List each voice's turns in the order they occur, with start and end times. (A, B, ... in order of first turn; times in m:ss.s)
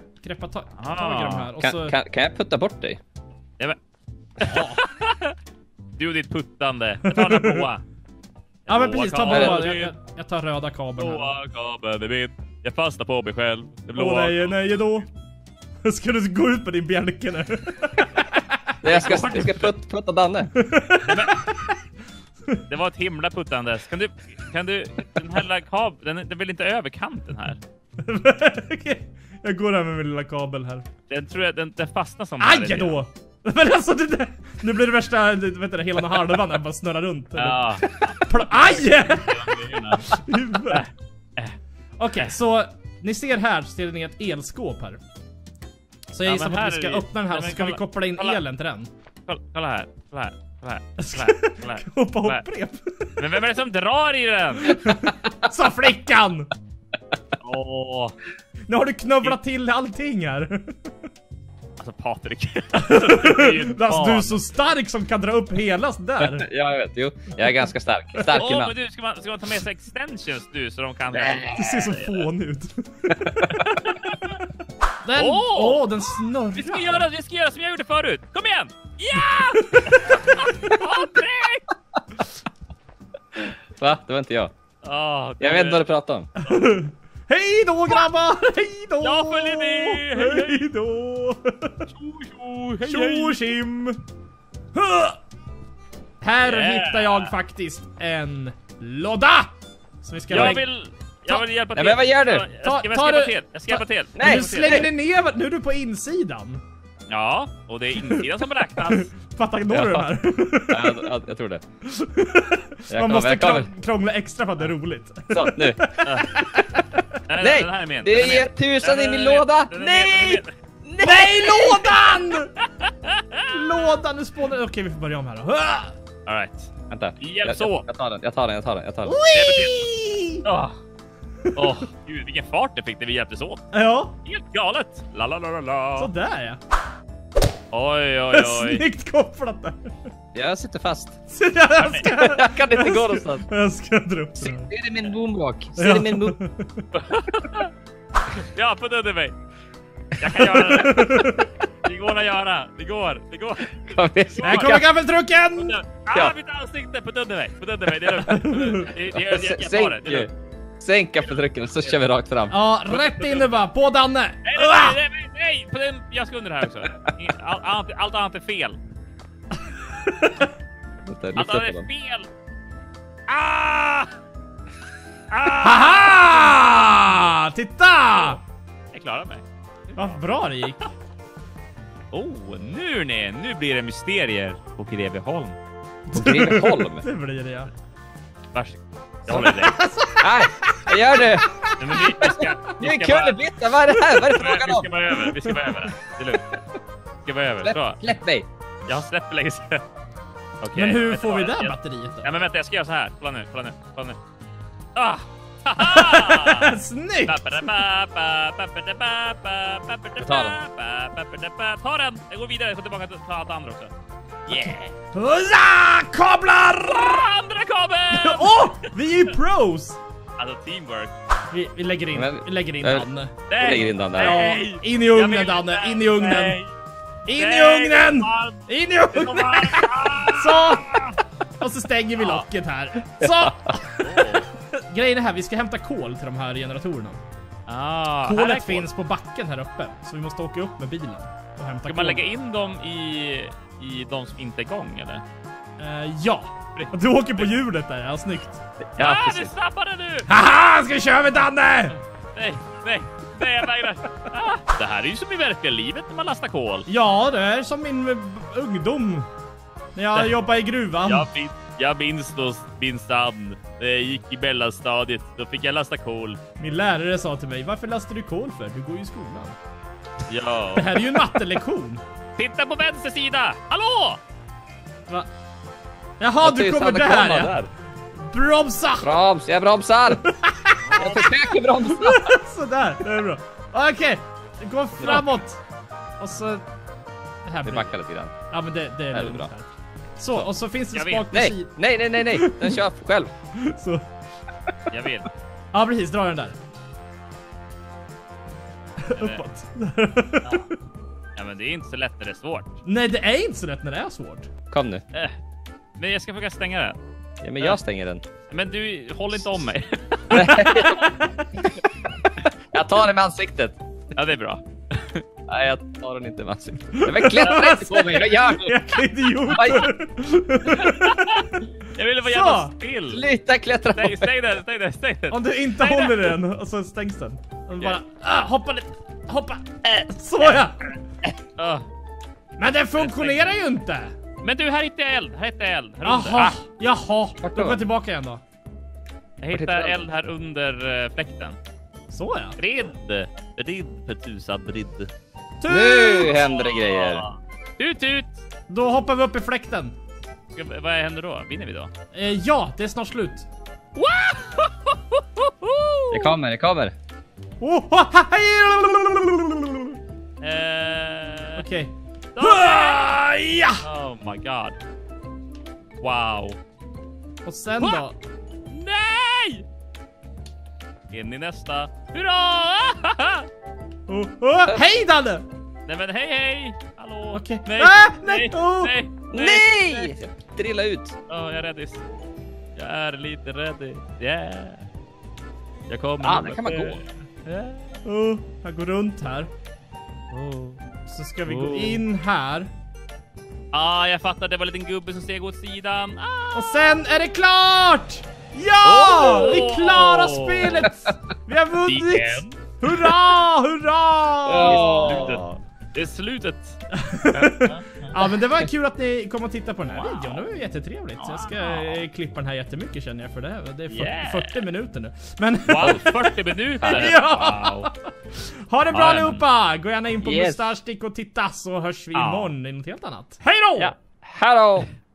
0:00.2-0:02.0 A
0:00.8-0:01.5 B
0:01.6-0:03.0 C
0:04.4-0:05.3 B
0:04.4-0:04.8 A
0:06.0-0:07.8 B
0:07.1-0:07.7 A
0:08.7-0:09.9 B
0:08.7-0:11.3 A
0:09.3-0:09.7 C
0:11.0-0:14.8 B
0:13.9-0:15.1 A
0:15.8-0:19.7 A
0:18.8-0:20.5 C
0:19.0-0:19.4 B
0:20.5-0:21.5 A
0:21.0-0:21.4 B
0:22.7-0:27.6 B
0:28.0-0:30.9 A
0:31.1-0:33.0 B
0:32.4-0:40.9 A
0:37.3-0:40.0 B
0:40.6-0:41.6 B
0:42.0-0:45.0 A
0:46.1-0:48.9 A
0:46.2-0:48.4 B
0:49.3-0:52.4 B
0:51.0-0:53.4 A
0:53.2-0:54.8 B
0:54.7-0:56.5 A
0:57.4-0:58.1 B
0:58.7-1:00.9 A
1:01.8-1:04.4 B
1:02.7-1:06.5 A
1:06.2-1:08.7 C
1:08.3-1:12.0 B
1:11.1-1:11.6 C
1:11.5-1:13.6 A
1:13.6-1:14.3 B
1:15.0-1:17.1 A
1:15.1-1:15.9 B
1:16.5-1:21.7 B
1:19.7-1:20.1 A
1:23.8-1:24.5 C
1:24.8-1:25.9 B
1:25.4-1:26.3 C
1:26.4-1:31.8 A
1:29.0-1:30.6 B
1:31.9-1:33.4 B
1:32.8-1:34.0 A
1:34.7-1:35.2 A
1:36.2-1:40.6 A
1:36.4-1:37.3 B
1:40.3-1:44.8 B
1:41.7-1:42.5 C
1:42.6-1:46.6 A
1:44.1-1:44.9 C
1:47.1-1:49.1 B
1:48.0-1:51.2 A
1:49.7-1:50.0 C
1:50.7-1:51.6 C
1:51.8-1:56.8 A
1:52.9-1:53.7 C
1:55.3-1:56.0 C
1:56.0-1:56.4 B
1:57.3-2:00.5 B
1:57.4-2:02.0 C
2:01.0-2:02.5 A
2:02.6-2:03.7 B
2:03.5-2:05.9 A
2:06.2-2:07.8 B
2:06.9-2:09.2 C
2:09.0-2:10.5 A
2:09.3-2:09.8 B
2:10.4-2:10.8 B
2:11.5-2:11.7 A
2:11.5-2:13.6 B
2:13.7-2:14.2 A
2:14.2-2:16.1 B
2:16.0-2:16.6 A
2:17.7-2:18.8 B
2:18.3-2:19.9 A
2:20.3-2:21.2 C
2:21.3-2:24.7 A
2:21.8-2:22.0 B
2:22.0-2:23.4 C
2:24.4-2:26.4 C
2:25.8-2:26.9 A
2:26.9-2:27.7 B
2:28.5-2:29.3 B
2:30.2-2:34.8 B
2:30.2-2:31.4 A
2:33.9-2:34.8 C
2:34.4-2:35.8 A
2:35.6-2:40.3 B
2:38.2-2:38.8 A
2:39.3-2:42.6 C
2:42.5-2:45.0 A
2:42.8-2:43.6 B
2:44.4-2:48.8 B
2:50.0-2:50.5 A
2:51.0-2:51.8 C
2:51.4-2:52.3 B
2:53.3-2:54.1 B
2:55.3-2:56.5 B
2:55.6-2:58.4 A
2:58.9-2:59.4 B
2:59.9-3:00.8 A
3:00.0-3:00.2 B
3:02.1-3:05.6 B
3:06.1-3:07.7 A
3:06.1-3:07.0 C
3:08.5-3:09.7 B
3:09.3-3:09.5 C
3:09.3-3:12.3 A
3:10.2-3:11.5 C
3:11.8-3:13.6 B
3:12.3-3:14.9 C
3:14.1-3:16.4 B
3:15.4-3:15.8 A
3:17.2-3:18.0 B
3:17.6-3:18.5 C
3:18.9-3:19.8 B
3:20.6-3:24.2 B
3:20.7-3:22.3 A
3:24.9-3:26.7 B
3:25.8-3:27.5 A
3:27.2-3:33.9 B
3:30.2-3:30.6 C
3:34.5-3:34.9 B
3:35.1-3:37.3 A
3:36.8-3:39.3 B
3:38.1-3:40.0 A
3:40.4-3:41.1 B
3:41.5-3:43.5 A
3:42.1-3:44.4 C
3:43.5-3:46.7 B
3:44.2-3:46.6 A
3:47.2-3:57.2 A
3:47.3-3:51.2 B
3:52.2-3:52.4 B
3:53.2-3:53.5 C
3:54.0-3:54.5 B
3:57.7-3:58.9 B
3:58.2-4:02.3 A
4:01.8-4:05.2 B
4:05.8-4:08.6 A
4:06.8-4:07.5 B
4:08.8-4:09.5 C
4:09.0-4:10.3 B
4:10.2-4:12.0 A
4:12.4-4:16.9 B
4:16.9-4:19.3 A
4:20.0-4:21.3 A
4:21.0-4:26.4 B
4:26.6-4:29.6 A
4:30.3-4:31.2 B
4:30.7-4:32.0 A
4:32.4-4:34.2 B
4:36.2-4:37.6 A
4:36.4-4:37.7 C
4:38.2-4:39.2 A
4:39.0-4:40.2 C
4:40.1-4:45.6 A
4:40.9-4:41.2 B
4:41.0-4:42.3 C
4:46.2-4:46.6 A
4:47.4-4:52.8 A
4:47.6-4:48.3 C
4:49.1-4:49.5 C
4:50.9-4:51.3 B
4:51.3-4:53.3 C
4:53.6-4:54.0 A
4:54.9-4:55.3 B
4:55.7-4:56.6 A
4:59.0-5:00.7 A
4:59.2-4:59.4 B
5:01.4-5:02.7 B
5:02.8-5:04.5 A
5:04.7-5:05.0 C
5:06.0-5:07.0 B
5:07.4-5:08.2 C
5:08.5-5:11.1 B
5:10.3-5:11.0 C
5:12.7-5:13.8 C
5:14.1-5:15.2 B
5:15.5-5:18.7 C
5:16.9-5:21.5 A
5:17.4-5:17.8 B
5:19.5-5:19.8 C
5:20.7-5:23.3 B
5:22.2-5:22.7 A
5:23.1-5:24.3 C
5:23.9-5:26.4 B
5:25.3-5:30.8 A
5:30.4-5:31.8 B
5:32.6-5:34.1 A
5:33.0-5:33.5 B
5:34.4-5:36.6 B
5:36.0-5:38.4 A
5:37.4-5:37.8 C
5:39.4-5:41.6 B
5:39.5-5:40.0 C
5:42.1-5:42.6 A
5:42.6-5:45.1 B
5:45.6-5:46.4 A
5:45.7-5:47.2 C
5:46.3-5:48.4 B
5:48.7-5:49.9 A
5:50.5-5:51.9 B
5:52.1-5:53.4 A
5:54.0-5:56.4 B
5:56.1-5:56.9 C
5:57.6-6:00.0 A
6:00.4-6:01.7 B
6:01.6-6:03.8 A
6:02.4-6:04.8 B
6:06.0-6:06.6 B
6:07.4-6:08.2 A
6:07.8-6:08.0 B
6:08.7-6:09.6 B
6:11.1-6:13.5 B
6:14.1-6:15.4 A
6:15.9-6:20.2 B
6:17.3-6:19.0 A
6:19.3-6:21.1 C
6:21.3-6:22.0 B
6:22.8-6:24.8 B
6:25.9-6:27.0 B
6:26.2-6:27.0 C
6:27.4-6:29.5 A
6:30.3-6:30.8 B
6:31.0-6:32.7 A
6:31.5-6:32.0 B
6:33.7-6:37.0 B
6:36.5-6:45.3 A
6:38.8-6:40.9 B
6:41.8-6:42.6 B
6:44.4-6:45.4 C
6:44.6-6:46.8 B
6:46.9-7:04.0 A
6:47.3-6:48.1 B
6:49.9-6:50.4 B
6:51.2-6:52.0 B
6:53.9-6:54.6 B
6:55.6-6:57.9 B
6:56.8-6:57.1 C
6:58.9-6:59.4 B
7:00.2-7:00.7 C
7:02.1-7:02.5 B
7:03.8-7:04.9 C